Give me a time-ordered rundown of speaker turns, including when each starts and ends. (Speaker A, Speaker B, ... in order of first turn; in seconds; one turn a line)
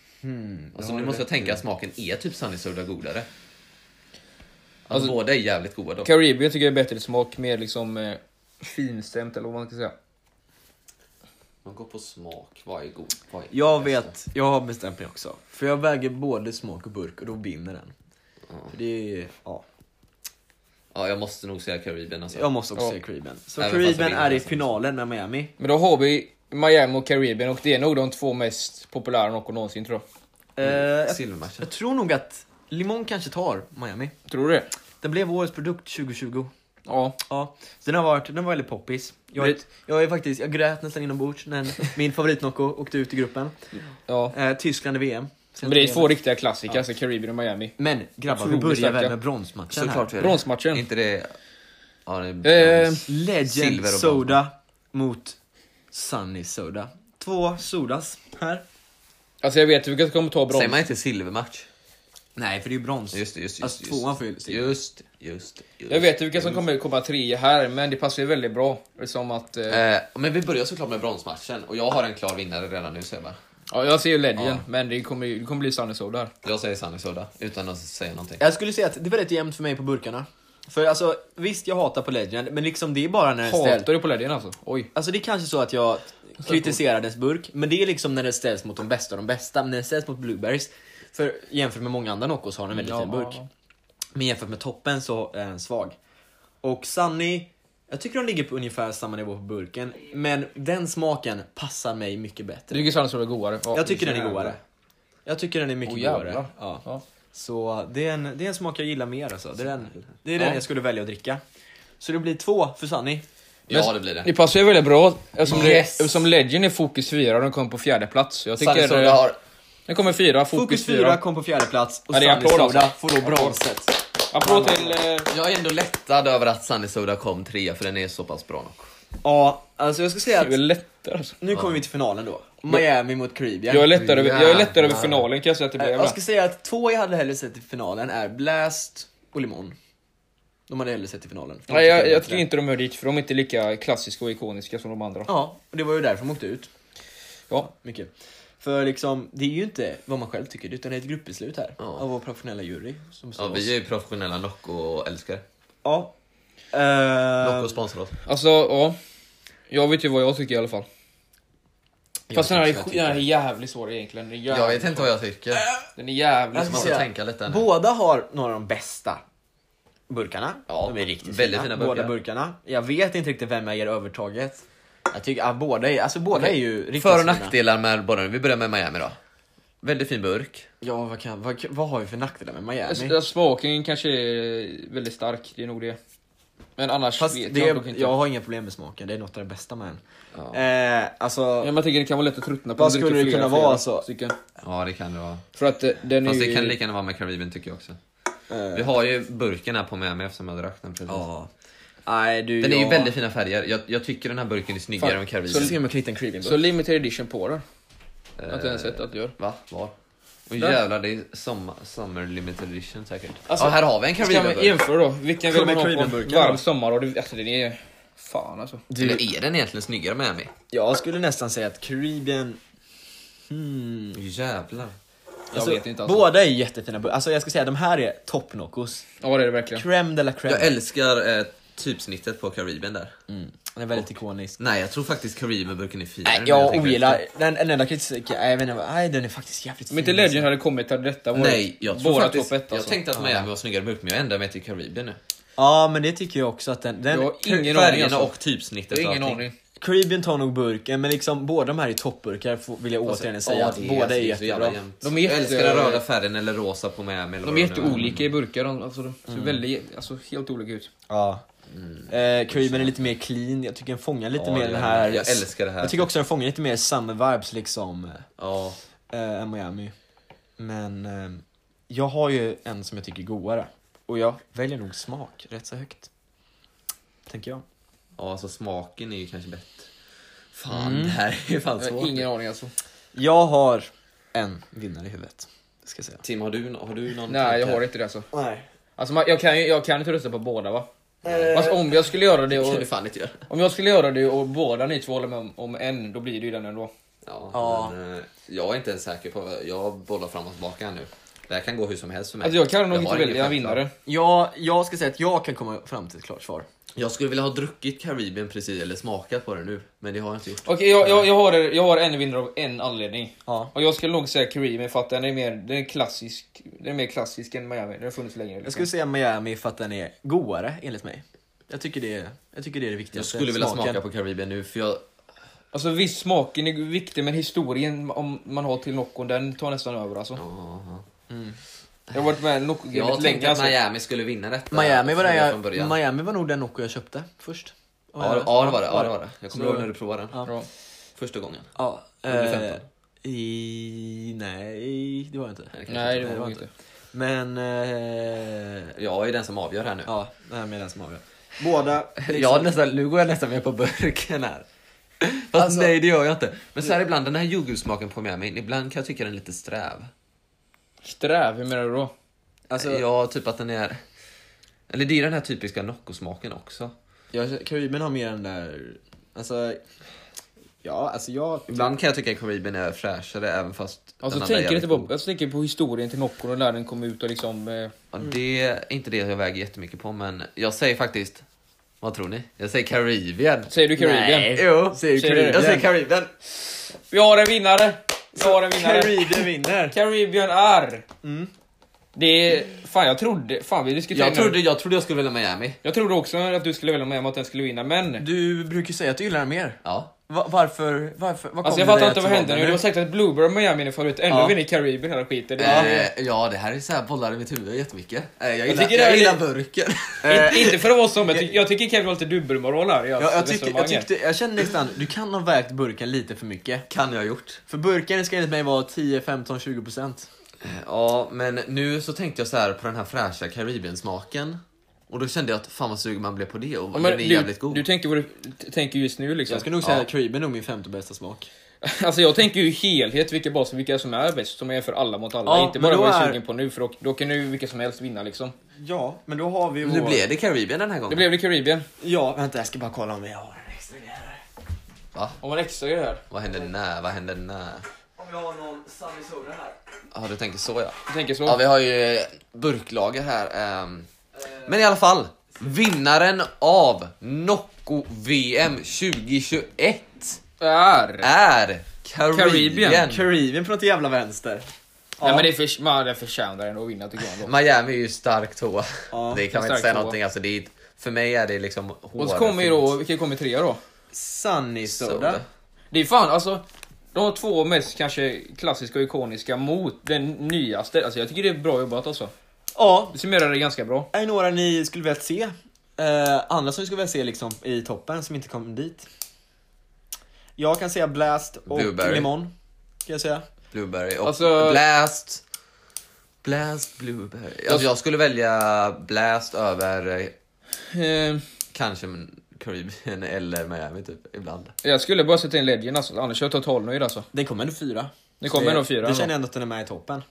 Speaker A: 0.2-1.6
Speaker B: 0.7-3.3
Speaker B: 4.9-6.1
Speaker C: 6.0-9.9
Speaker B: 11.6-14.1
Speaker A: 13.5-17.9
Speaker A: 18.7-19.6
Speaker B: 20.9-22.5
Speaker A: 22.3-25.5
Speaker B: 23.6-24.6
Speaker C: 25.6-30.0
Speaker A: 30.6-34.1
Speaker B: 30.6-31.6
Speaker C: 34.3-34.7
Speaker A: 35.0-36.5
Speaker C: 36.9-37.2
Speaker A: 37.2-43.5
Speaker C: 44.1-44.3
Speaker A: 44.3-46.1
Speaker C: 45.6-47.7
Speaker A: 47.8-50.1
Speaker C: 48.3-49.1
Speaker B: 49.7-51.3
Speaker C: 50.1-50.8
Speaker B: 52.0-54.4
Speaker C: 52.4-53.1
Speaker A: 53.0-55.4
Speaker A: 55.9-58.6
Speaker C: 59.4-60.8
Speaker B: 60.5-61.7
Speaker A: 62.4-64.8
Speaker B: 63.1-66.6
Speaker C: 65.9-69.8
Speaker B: 69.7-73.4
Speaker C: 73.7-76.3
Speaker B: 74.3-74.6
Speaker B: 76.4-78.4
Speaker A: 78.4-83.9
Speaker C: 83.4-84.9
Speaker A: 84.9-93.3
Speaker C: 92.8-93.5
Speaker A: 94.2-96.0
Speaker A: 96.6-102.9
Speaker C: 102.7-104.6
Speaker A: 103.7-104.6
Speaker A: 105.2-111.4
Speaker C: 105.8-107.0
Speaker C: 110.3-110.6
Speaker A: 112.0-113.2
Speaker B: 113.7-114.3
Speaker C: 113.7-119.2
Speaker A: 115.4-116.1
Speaker B: 115.5-115.9
Speaker B: 118.6-119.4
Speaker C: 119.9-121.2
Speaker A: 120.5-125.0
Speaker C: 122.1-123.6
Speaker C: 124.3-125.3
Speaker B: 125.3-128.9
Speaker A: 129.2-130.5
Speaker C: 130.3-131.3
Speaker A: 131.4-133.9
Speaker B: 131.5-131.8
Speaker C: 133.7-136.2
Speaker B: 133.9-135.2
Speaker A: 135.8-139.8
Speaker A: 140.7-142.4
Speaker C: 141.7-145.3
Speaker A: 145.3-146.7
Speaker A: 147.6-153.7
Speaker B: 153.4-155.4
Speaker A: 155.8-156.1
Speaker A: 156.7-157.7
Speaker B: 157.4-158.1
Speaker C: 158.2-159.0
Speaker C: 159.7-160.9
Speaker A: 162.3-163.2
Speaker C: 162.3-165.1
Speaker B: 164.5-165.7
Speaker C: 165.9-167.0
Speaker A: 166.5-169.2
Speaker B: 166.7-167.7
Speaker A: 170.1-177.5
Speaker B: 170.7-172.1
Speaker B: 176.3-179.2
Speaker B: 179.8-180.7
Speaker A: 180.8-183.2
Speaker C: 182.8-186.0
Speaker C: 186.8-188.1
Speaker A: 187.2-191.7
Speaker C: 191.6-194.3
Speaker A: 192.8-194.1
Speaker B: 194.6-195.4
Speaker C: 195.5-196.8
Speaker B: 196.2-198.0
Speaker A: 198.5-198.9
Speaker B: 198.7-201.2
Speaker A: 201.1-201.5
Speaker A: 202.1-203.1
Speaker B: 202.6-205.7
Speaker C: 205.0-205.7
Speaker A: 205.5-206.6
Speaker C: 206.4-207.6
Speaker B: 208.4-209.9
Speaker C: 208.5-209.3
Speaker B: 210.5-214.8
Speaker C: 213.5-218.9
Speaker A: 215.5-216.6
Speaker A: 218.9-219.2
Speaker B: 219.0-220.5
Speaker A: 220.7-222.6
Speaker A: 223.5-224.2
Speaker B: 224.1-224.9
Speaker C: 225.5-226.3
Speaker A: 225.5-229.1
Speaker C: 229.2-229.8
Speaker A: 229.7-230.7
Speaker B: 230.5-233.1
Speaker A: 233.3-234.6
Speaker B: 234.6-237.2
Speaker A: 236.3-240.5
Speaker C: 236.4-237.1
Speaker C: 239.9-243.0
Speaker B: 241.3-245.2
Speaker A: 243.1-243.4
Speaker A: 245.6-247.4
Speaker C: 247.1-248.3
Speaker B: 247.4-249.4
Speaker C: 248.9-249.5
Speaker A: 249.8-254.8
Speaker B: 253.1-258.2
Speaker C: 255.0-256.0
Speaker C: 257.4-260.9
Speaker A: 257.9-258.2
Speaker A: 259.3-259.6
Speaker A: 261.1-261.4
Speaker B: 261.7-263.0
Speaker A: 262.1-268.2
Speaker B: 264.3-266.1
Speaker B: 268.4-268.8
Speaker A: 269.1-269.9
Speaker A: 270.6-276.1
Speaker A: 277.3-277.6
Speaker B: 278.1-279.9
Speaker B: 280.5-282.2
Speaker A: 280.7-281.2
Speaker C: 281.8-282.7
Speaker A: 283.1-286.2
Speaker B: 286.2-287.8
Speaker C: 287.3-288.3
Speaker A: 288.3-288.6
Speaker C: 289.0-290.9
Speaker A: 291.2-291.8
Speaker B: 291.2-291.7
Speaker C: 291.5-292.9
Speaker B: 292.5-293.5
Speaker C: 293.5-296.9
Speaker B: 297.2-303.8
Speaker A: 297.5-297.9
Speaker C: 302.4-303.9
Speaker A: 304.1-306.6
Speaker B: 306.9-310.7
Speaker C: 310.6-318.9
Speaker A: 313.5-313.7
Speaker A: 318.6-324.0
Speaker B: 323.1-325.0
Speaker C: 325.7-330.4
Speaker B: 330.4-331.0
Speaker A: 331.3-331.6
Speaker C: 332.1-333.8
Speaker B: 332.9-335.9
Speaker A: 334.7-340.5
Speaker B: 338.2-340.4
Speaker C: 340.4-340.7
Speaker B: 341.2-341.7
Speaker A: 341.7-346.6
Speaker B: 342.3-342.8
Speaker B: 345.7-346.6
Speaker C: 345.9-346.7
Speaker A: 347.1-348.9
Speaker B: 348.9-350.1
Speaker A: 350.1-352.7
Speaker B: 352.2-354.6
Speaker B: 355.2-360.1
Speaker A: 355.6-355.9
Speaker C: 361.0-362.1
Speaker A: 362.7-363.0
Speaker B: 362.8-364.0
Speaker B: 364.9-366.9
Speaker A: 367.3-369.8
Speaker A: 370.8-371.9
Speaker B: 371.7-375.1
Speaker C: 374.2-377.9
Speaker B: 378.1-381.4
Speaker B: 382.0-386.3
Speaker C: 383.7-385.7
Speaker A: 384.0-385.9
Speaker C: 387.0-391.0
Speaker A: 388.4-389.9
Speaker A: 391.2-391.5
Speaker C: 392.1-394.6
Speaker B: 394.1-395.8
Speaker C: 395.8-398.2
Speaker A: 398.2-402.8
Speaker B: 399.8-400.1
Speaker C: 401.6-406.1
Speaker A: 404.3-404.6
Speaker B: 405.6-410.5
Speaker A: 405.6-405.9
Speaker C: 408.7-409.4
Speaker A: 410.2-411.4
Speaker C: 410.2-414.1
Speaker A: 413.2-416.8
Speaker B: 416.9-417.6
Speaker A: 417.7-420.3
Speaker B: 420.6-427.8
Speaker C: 426.9-429.7
Speaker A: 429.5-431.5
Speaker C: 431.8-438.5
Speaker A: 435.4-436.4
Speaker A: 438.8-440.2
Speaker B: 439.8-441.3
Speaker C: 441.1-441.9
Speaker A: 442.0-444.4
Speaker C: 445.4-446.2
Speaker B: 446.3-447.9
Speaker A: 448.2-449.8
Speaker B: 450.1-454.1
Speaker C: 451.1-451.6
Speaker B: 454.6-460.4
Speaker C: 460.6-461.3
Speaker B: 461.2-463.3
Speaker C: 462.3-463.1
Speaker A: 463.0-464.7
Speaker A: 465.2-465.5
Speaker C: 465.2-467.5
Speaker B: 467.4-472.9
Speaker A: 469.1-469.4
Speaker C: 469.5-470.1
Speaker C: 472.2-473.8
Speaker A: 474.1-475.4
Speaker B: 474.9-475.4
Speaker C: 475.9-482.3
Speaker A: 482.7-483.2
Speaker C: 483.1-484.1
Speaker A: 484.1-489.1
Speaker A: 490.6-492.5
Speaker B: 491.7-492.3
Speaker A: 493.1-493.4
Speaker B: 493.7-495.4
Speaker C: 494.2-494.8
Speaker B: 496.4-500.3
Speaker C: 500.8-501.4
Speaker B: 501.7-504.7
Speaker C: 504.8-507.2
Speaker A: 507.3-510.2
Speaker C: 508.4-509.3